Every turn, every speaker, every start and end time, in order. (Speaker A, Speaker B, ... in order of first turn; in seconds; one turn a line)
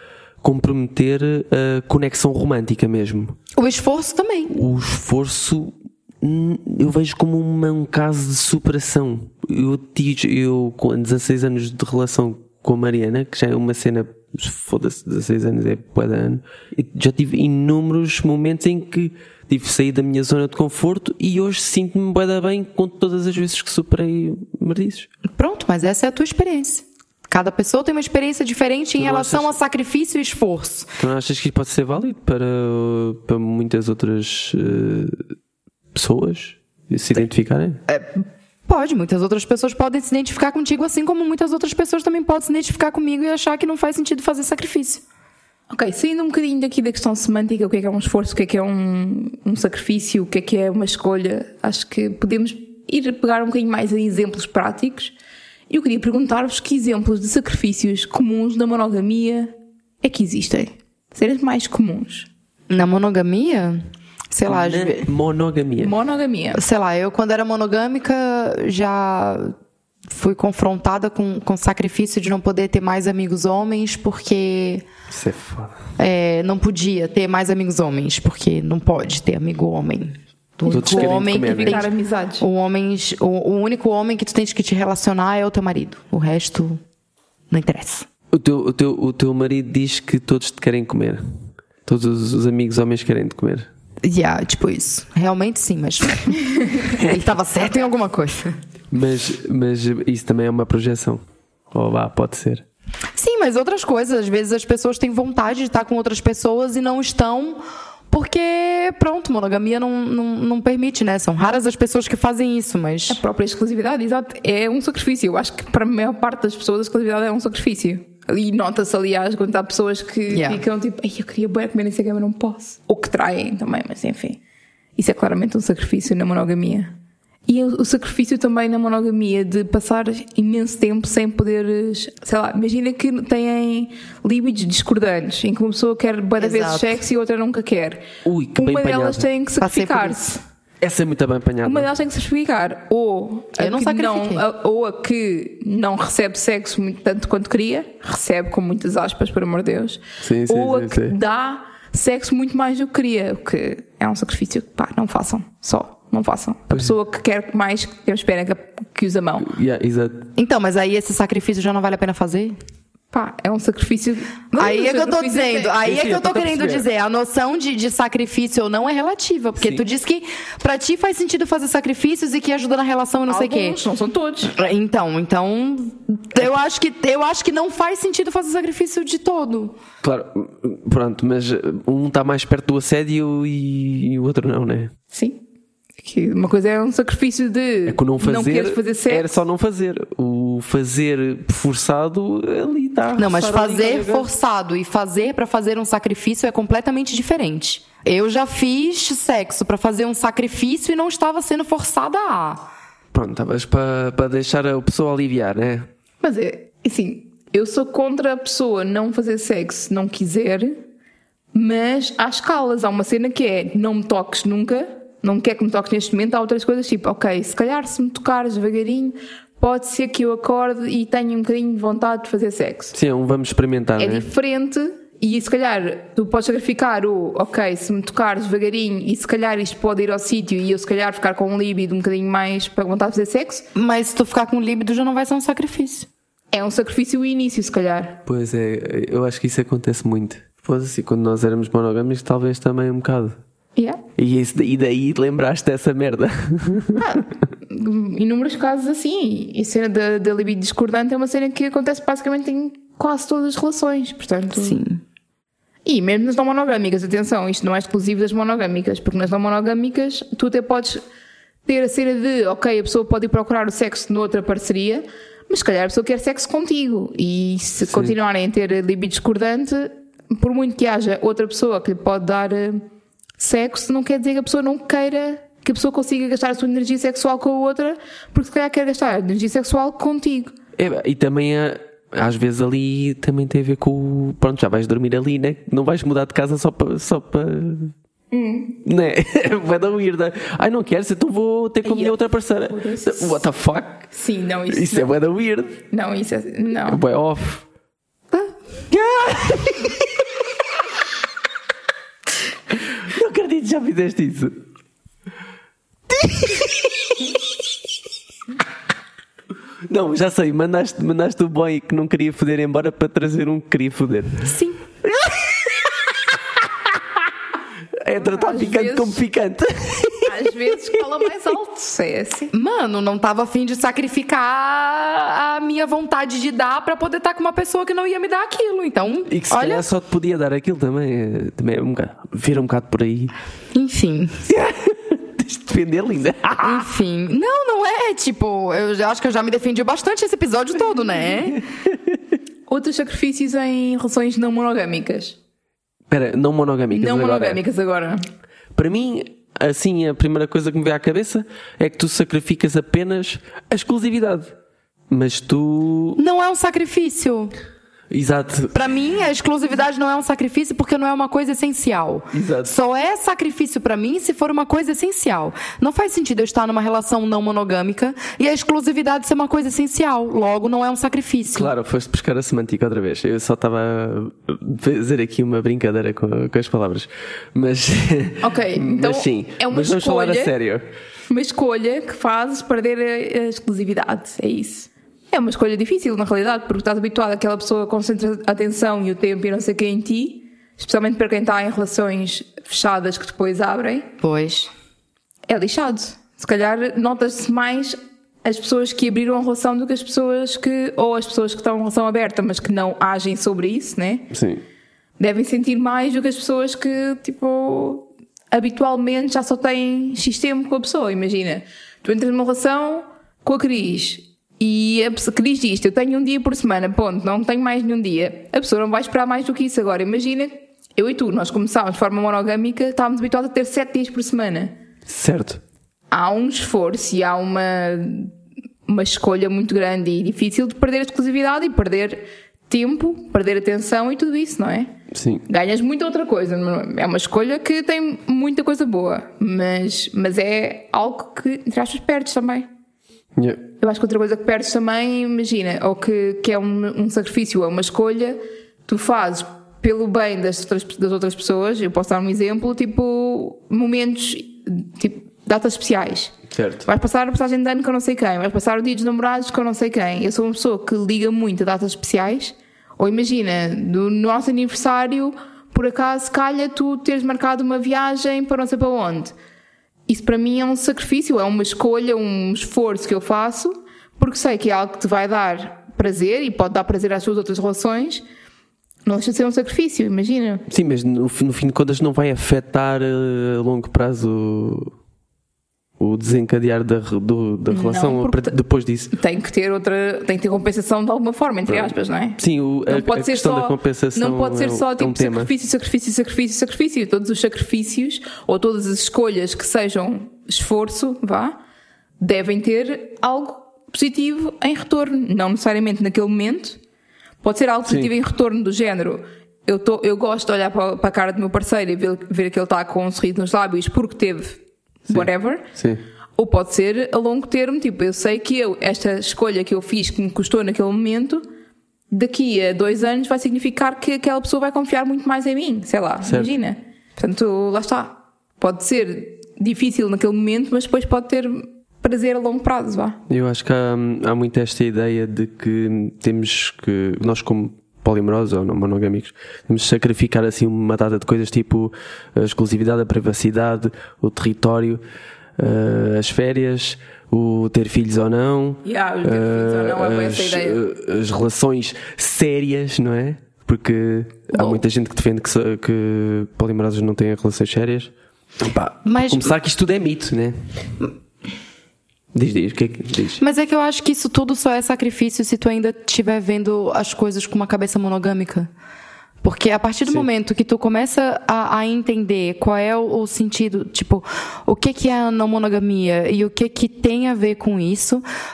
Speaker A: 0.4-3.4
Speaker B: 3.6-4.6
Speaker A: 4.5-25.1
Speaker B: 25.3-30.9
Speaker A: 29.0-29.6
Speaker A: 31.0-35.2
Speaker A: 35.9-37.8
Speaker B: 37.9-45.0
Speaker C: 45.7-55.1
Speaker C: 55.7-62.3
Speaker B: 62.7-65.1
Speaker A: 64.5-66.0
Speaker C: 65.8-66.6
Speaker B: 66.5-69.5
Speaker B: 70.1-74.9
Speaker A: 75.1-75.8
Speaker B: 76.0-86.8
Speaker C: 80.7-82.5
Speaker A: 80.7-81.9
Speaker B: 87.5-88.1
Speaker A: 88.3-91.2
Speaker A: 91.9-93.7
Speaker B: 94.0-98.5
Speaker A: 98.9-101.2
Speaker A: 101.7-102.6
Speaker B: 103.2-113.2
Speaker C: 113.1-124.4
Speaker B: 120.3-120.6
Speaker C: 125.0-126.9
Speaker C: 127.5-140.4
Speaker B: 136.4-137.0
Speaker A: 138.2-139.2
Speaker B: 139.6-140.2
Speaker A: 140.8-141.9
Speaker C: 141.6-159.5
Speaker B: 143.6-144.4
Speaker A: 150.2-151.2
Speaker A: 159.4-160.3
Speaker B: 160.4-162.6
Speaker C: 163.1-165.8
Speaker B: 164.6-173.8
Speaker A: 165.8-166.9
Speaker C: 173.3-174.5
Speaker B: 174.5-179.8
Speaker A: 180.0-184.9
Speaker C: 185.1-185.4
Speaker C: 186.0-189.3
Speaker A: 187.9-194.3
Speaker B: 193.2-202.7
Speaker A: 203.1-205.9
Speaker C: 206.2-210.8
Speaker C: 211.5-222.9
Speaker A: 222.9-224.3
Speaker C: 224.0-233.7
Speaker B: 233.8-236.1
Speaker C: 236.5-238.2
Speaker A: 238.3-243.4
Speaker C: 243.8-244.0
Speaker A: 244.2-247.1
Speaker C: 247.0-254.8
Speaker B: 254.5-255.0
Speaker C: 255.8-261.0
Speaker C: 261.7-272.8
Speaker C: 273.4-280.5
Speaker A: 280.8-287.9
Speaker C: 288.3-288.8
Speaker A: 288.8-294.1
Speaker C: 291.8-292.2
Speaker C: 292.7-293.4
Speaker C: 294.1-295.1
Speaker A: 294.7-295.8
Speaker C: 295.9-297.0
Speaker A: 296.9-297.6
Speaker A: 298.9-300.0
Speaker A: 303.1-304.6
Speaker A: 306.1-306.9
Speaker A: 309.9-314.6
Speaker B: 314.4-314.8
Speaker A: 315.1-315.9
Speaker A: 318.0-320.4
Speaker C: 318.2-319.2
Speaker C: 320.3-322.5
Speaker B: 322.5-329.9
Speaker A: 329.3-333.3
Speaker B: 333.7-334.5
Speaker A: 334.5-336.9
Speaker B: 336.6-341.6
Speaker C: 342.7-345.4
Speaker A: 346.1-347.6
Speaker C: 346.9-348.2
Speaker A: 348.8-354.5
Speaker A: 355.1-356.2
Speaker B: 356.2-357.5
Speaker A: 358.1-358.8
Speaker B: 358.7-371.7
Speaker A: 362.3-362.7
Speaker A: 371.5-380.9
Speaker C: 378.4-380.5
Speaker C: 381.3-394.1
Speaker B: 394.2-394.7
Speaker C: 395.5-404.3
Speaker A: 404.3-404.6
Speaker C: 405.2-424.8
Speaker A: 425.1-425.6
Speaker C: 426.1-428.3
Speaker C: 428.9-434.9
Speaker A: 435.1-435.4
Speaker C: 435.5-442.7
Speaker A: 443.4-443.6
Speaker C: 443.8-469.3
Speaker A: 456.5-456.9
Speaker C: 470.1-478.2
Speaker C: 479.1-480.6
Speaker A: 480.7-484.9
Speaker A: 486.0-489.1
Speaker C: 487.7-488.5
Speaker C: 489.1-501.6
Speaker A: 491.7-495.5
Speaker C: 502.2-506.8
Speaker C: 507.4-515.7
Speaker A: 515.1-516.0
Speaker C: 516.4-521.5
Speaker C: 522.1-533.2
Speaker A: 526.2-526.5
Speaker A: 533.3-545.0
Speaker A: 545.6-560.6
Speaker C: 548.8-550.8
Speaker B: 554.5-554.8
Speaker B: 559.0-559.6
Speaker A: 562.3-563.4
Speaker B: 563.4-568.7
Speaker B: 569.4-578.2